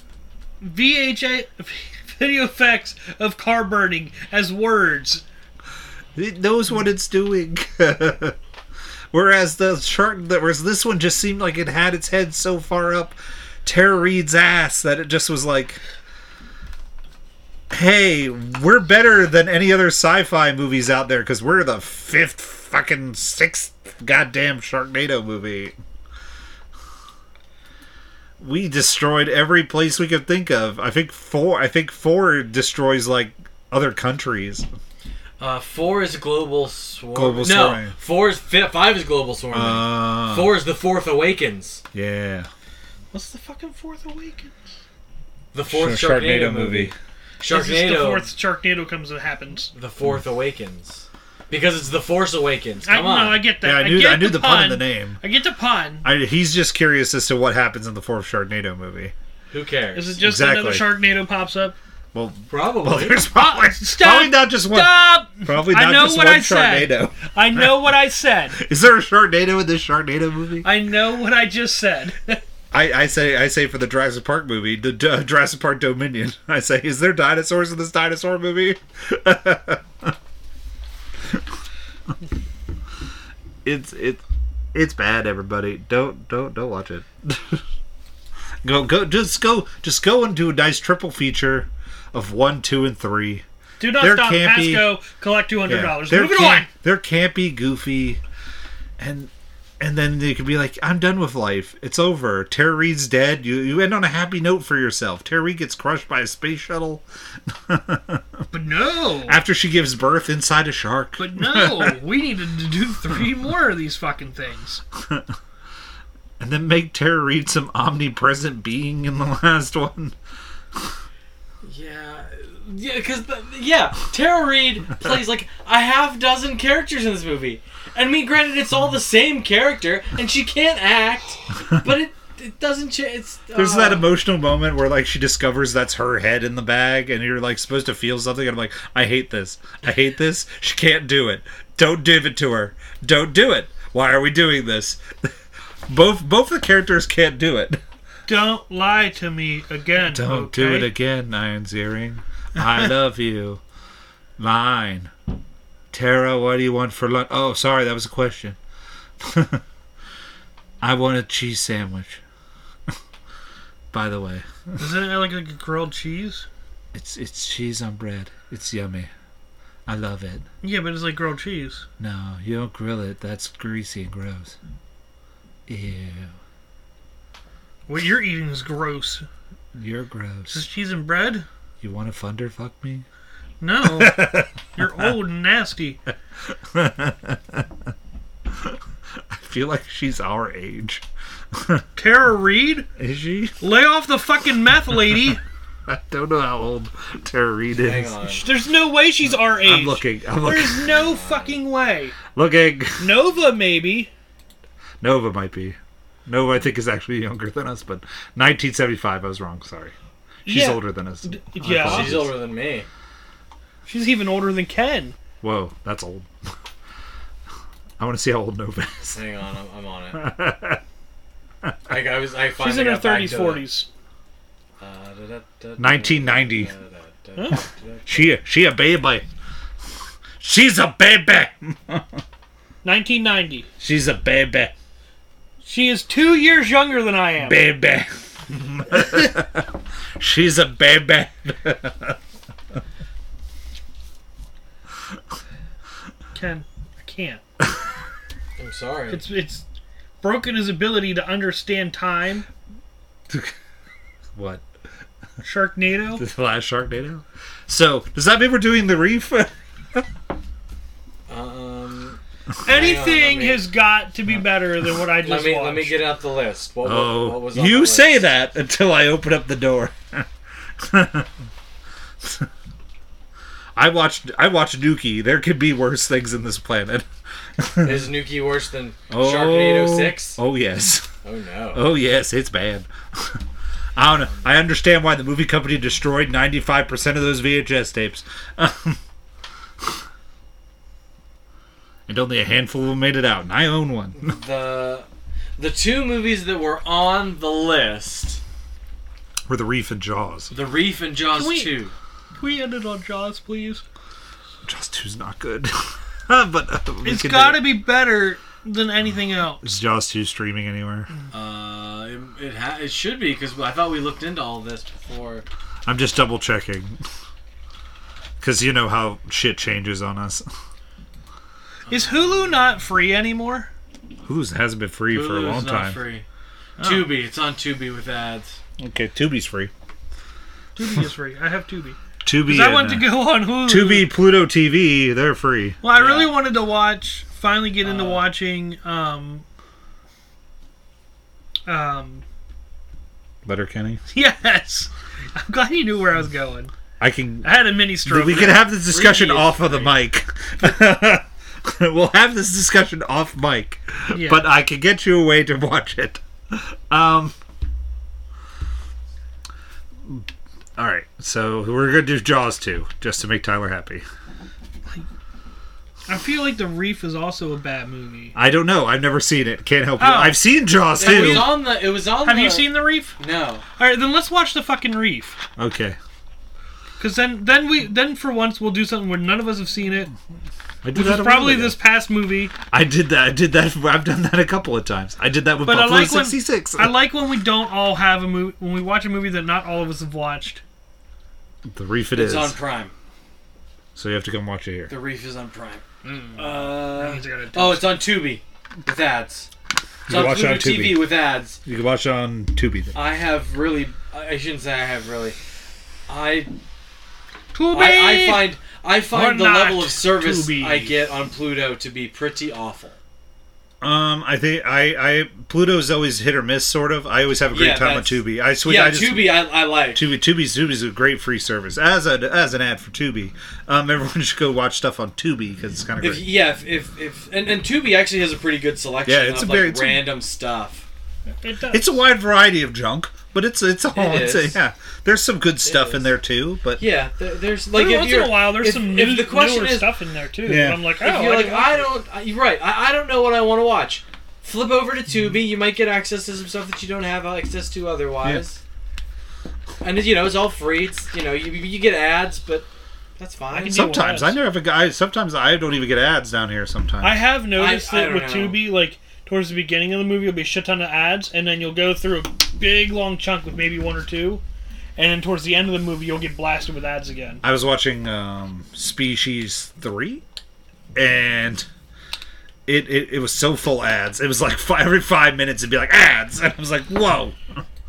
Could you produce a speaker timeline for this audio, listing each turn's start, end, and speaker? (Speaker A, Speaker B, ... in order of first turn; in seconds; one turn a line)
Speaker A: 0.6-5.2
Speaker B: 6.2-8.3
Speaker B: 9.1-15.8
Speaker B: 17.7-25.7
Speaker B: 28.4-34.7
Speaker C: 35.4-41.8
Speaker B: 37.1-37.9
Speaker B: 39.5-40.5
Speaker B: 41.9-42.5
Speaker A: 43.1-44.5
Speaker C: 45.5-48.2
Speaker B: 45.7-46.9
Speaker A: 47.4-49.7
Speaker C: 49.7-53.4
Speaker A: 52.9-56.0
Speaker B: 53.6-55.2
Speaker B: 56.0-59.1
Speaker C: 59.5-60.2
Speaker A: 59.9-61.8
Speaker B: 60.2-61.0
Speaker B: 62.1-67.9
Speaker C: 62.5-63.2
Speaker A: 63.3-68.6
Speaker B: 68.5-70.7
Speaker A: 70.6-72.4
Speaker B: 72.7-80.1
Speaker B: 83.6-84.2
Speaker B: 84.7-87.6
Speaker B: 88.6-94.9
Speaker A: 93.8-96.7
Speaker B: 95.7-98.2
Speaker B: 99.0-108.5
Speaker A: 108.5-109.4
Speaker B: 109.2-112.0
Speaker A: 111.2-114.8
Speaker B: 115.0-115.3
Speaker B: 116.4-120.2
Speaker C: 121.6-134.1
Speaker B: 133.5-145.3
Speaker B: 145.9-147.8
Speaker A: 148.3-150.9
Speaker B: 150.0-153.6
Speaker B: 154.4-155.1
Speaker B: 155.9-158.6
Speaker B: 159.2-159.6
Speaker B: 160.8-162.2
Speaker B: 163.9-164.5
Speaker A: 164.8-166.4
Speaker B: 166.9-169.1
Speaker B: 169.9-170.4
Speaker A: 170.6-171.8
Speaker B: 172.0-174.6
Speaker B: 175.7-176.3
Speaker A: 177.9-179.2
Speaker B: 179.7-180.6
Speaker A: 180.5-181.4
Speaker B: 181.8-183.0
Speaker A: 183.6-186.0
Speaker B: 183.8-185.1
Speaker B: 186.7-187.7
Speaker B: 189.3-191.8
Speaker A: 191.9-192.8
Speaker B: 193.0-193.6
Speaker A: 193.6-195.4
Speaker B: 195.9-198.3
Speaker C: 197.7-198.4
Speaker A: 198.4-202.2
Speaker B: 199.4-200.9
Speaker C: 200.9-201.6
Speaker B: 202.3-203.1
Speaker A: 203.0-204.1
Speaker B: 205.0-209.9
Speaker A: 210.4-212.2
Speaker B: 210.4-212.3
Speaker C: 211.8-212.9
Speaker A: 213.8-215.2
Speaker B: 215.4-216.5
Speaker B: 218.0-219.2
Speaker C: 219.1-220.2
Speaker B: 220.1-220.8
Speaker B: 221.6-221.9
Speaker C: 221.9-223.7
Speaker A: 222.6-223.9
Speaker C: 224.8-228.3
Speaker B: 225.8-226.7
Speaker B: 228.1-229.2
Speaker B: 230.4-232.2
Speaker A: 232.8-233.7
Speaker B: 233.8-234.7
Speaker A: 235.6-237.6
Speaker B: 237.4-242.2
Speaker A: 246.3-247.4
Speaker C: 248.6-249.2
Speaker A: 249.1-249.6
Speaker A: 250.2-252.4
Speaker B: 253.3-253.5
Speaker B: 254.3-254.6
Speaker A: 255.4-256.2
Speaker B: 256.2-260.0
Speaker C: 261.3-263.7
Speaker A: 262.6-266.0
Speaker C: 265.2-268.1
Speaker B: 266.8-270.3
Speaker B: 270.8-271.3
Speaker B: 272.2-272.5
Speaker B: 273.8-277.1
Speaker B: 277.6-278.1
Speaker C: 277.8-280.4
Speaker B: 279.1-281.1
Speaker C: 281.2-281.8
Speaker B: 281.7-283.4
Speaker B: 283.9-289.0
Speaker B: 292.1-294.3
Speaker C: 294.2-295.1
Speaker C: 295.6-298.4
Speaker B: 299.5-300.5
Speaker C: 300.5-301.9
Speaker A: 301.3-301.7
Speaker A: 302.4-303.8
Speaker B: 304.6-307.8
Speaker A: 307.0-309.7
Speaker B: 309.6-311.1
Speaker C: 311.3-315.4
Speaker B: 315.9-317.0
Speaker B: 318.4-320.4
Speaker C: 321.9-322.4
Speaker A: 321.9-323.7
Speaker B: 324.2-326.0
Speaker C: 325.1-326.2
Speaker A: 326.8-327.1
Speaker C: 326.8-328.6
Speaker B: 328.8-329.7
Speaker A: 330.8-334.1
Speaker B: 332.2-335.8
Speaker A: 335.8-339.4
Speaker C: 335.9-336.3
Speaker C: 337.8-338.3
Speaker A: 341.7-342.2
Speaker B: 343.4-344.0
Speaker A: 344.1-346.7
Speaker B: 347.0-357.3
Speaker A: 347.4-348.7
Speaker C: 348.8-349.9
Speaker A: 354.1-354.4
Speaker B: 360.8-364.0
Speaker A: 366.1-368.3
Speaker B: 368.3-371.6
Speaker A: 370.0-370.4
Speaker C: 371.0-373.6
Speaker A: 371.0-371.6
Speaker A: 372.2-373.2
Speaker A: 373.8-375.4
Speaker B: 375.6-376.0
Speaker A: 377.0-380.1
Speaker B: 380.8-381.8
Speaker A: 380.9-382.5
Speaker B: 382.7-387.1
Speaker A: 385.6-390.6
Speaker B: 391.7-392.6
Speaker C: 392.1-392.9
Speaker B: 393.9-394.9
Speaker C: 394.9-399.5
Speaker A: 396.0-398.0
Speaker B: 400.1-401.1
Speaker C: 400.1-401.6
Speaker B: 401.6-402.9
Speaker C: 402.9-405.4
Speaker C: 406.1-406.5
Speaker A: 407.5-408.5
Speaker C: 407.7-412.9
Speaker A: 409.1-410.9
Speaker B: 413.8-426.2
Speaker C: 417.5-420.1
Speaker C: 426.0-430.8
Speaker B: 429.1-430.1
Speaker A: 431.4-432.0
Speaker B: 431.7-436.8
Speaker C: 433.9-434.6
Speaker C: 435.6-436.1
Speaker C: 436.8-439.9
Speaker A: 437.7-441.9
Speaker B: 440.4-440.8
Speaker C: 441.0-448.6
Speaker C: 449.8-452.7
Speaker C: 453.2-453.8
Speaker A: 453.5-454.4
Speaker B: 453.7-457.2
Speaker A: 457.0-464.4
Speaker C: 457.5-458.6
Speaker A: 465.0-467.4
Speaker B: 467.4-470.2
Speaker B: 470.9-471.6
Speaker B: 472.6-477.4